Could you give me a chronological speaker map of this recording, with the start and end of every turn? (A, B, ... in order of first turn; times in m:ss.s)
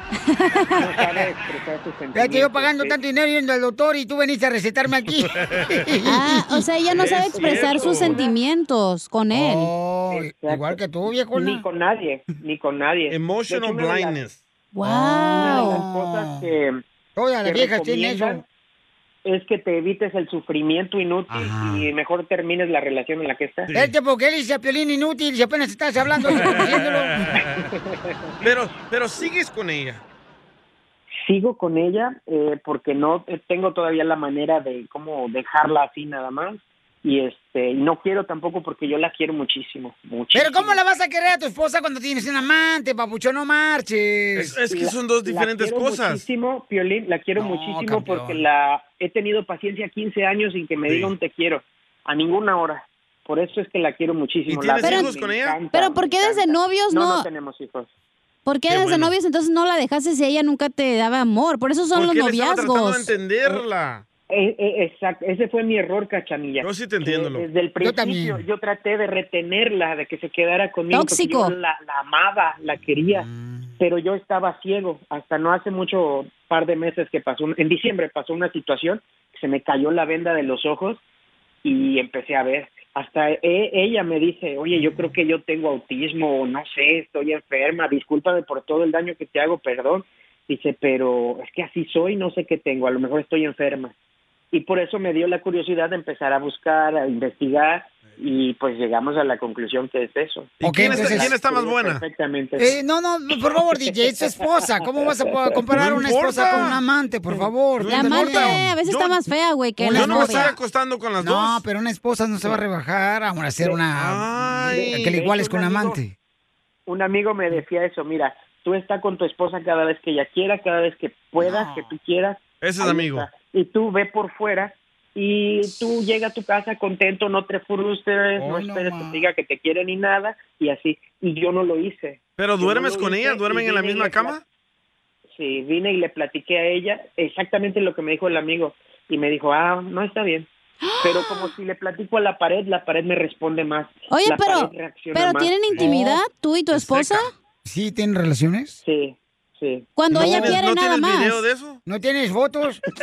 0:00.3-0:00.6 A
0:00.8-0:03.0 B
0:02.1-0:06.6 C
0:05.4-0:05.7 D
0:06.1-0:09.7 A
0:06.9-0:08.2 D
0:07.3-0:08.3 B
0:09.3-0:11.6 C
0:10.1-0:10.8 B
0:11.4-0:14.2 B
0:13.1-0:14.4 D
0:14.7-0:15.8 A
0:14.8-0:16.5 C
0:15.3-0:16.8 B
0:17.2-0:18.4 C
0:17.4-0:18.4 B
0:19.2-0:23.7 B
0:21.3-0:21.9 C
0:23.7-0:23.9 D
0:23.7-0:27.3 C
0:26.6-0:27.6 D
0:27.6-0:27.8 B
0:28.4-0:30.0 D
0:31.2-0:40.8 B
0:40.3-0:44.6 C
0:44.4-0:46.2 D
0:44.6-0:57.9 B
0:47.4-0:48.4 C
0:50.9-0:51.1 D
0:54.5-0:55.6 D
0:54.8-0:55.1 A
0:55.7-0:57.3 A
0:58.4-1:03.1 A
0:58.7-0:59.1 D
1:01.9-1:04.0 D
1:04.3-1:13.3 B
1:06.6-1:07.4 D
1:07.8-1:08.4 C
1:10.9-1:11.5 A
1:13.3-1:13.7 C
1:13.8-1:21.0 B
1:21.6-1:33.9 B
1:34.5-1:42.7 B
1:40.6-1:42.0 D
1:40.6-1:41.3 C
1:42.6-1:48.6 C
1:45.2-1:45.6 B
1:45.7-1:46.8 D
1:47.8-1:49.2 D
1:47.8-1:50.5 A
1:49.8-1:50.6 C
1:49.9-1:51.6 D
1:51.2-1:56.1 C
1:53.9-1:55.2 D
1:54.7-1:56.0 B
1:56.9-2:14.4 B
2:01.4-2:01.9 C
2:02.6-2:03.3 D
2:08.4-2:09.2 C
2:12.4-2:14.4 D
2:15.4-2:20.5 B
2:20.8-2:21.5 A
2:21.0-2:25.9 B
2:24.1-2:27.3 A
2:26.7-2:27.3 D
2:27.6-2:28.8 C
2:28.8-2:29.9 B
2:30.0-2:31.4 A
2:30.1-2:31.8 D
2:30.2-2:30.6 C
2:31.8-2:32.8 C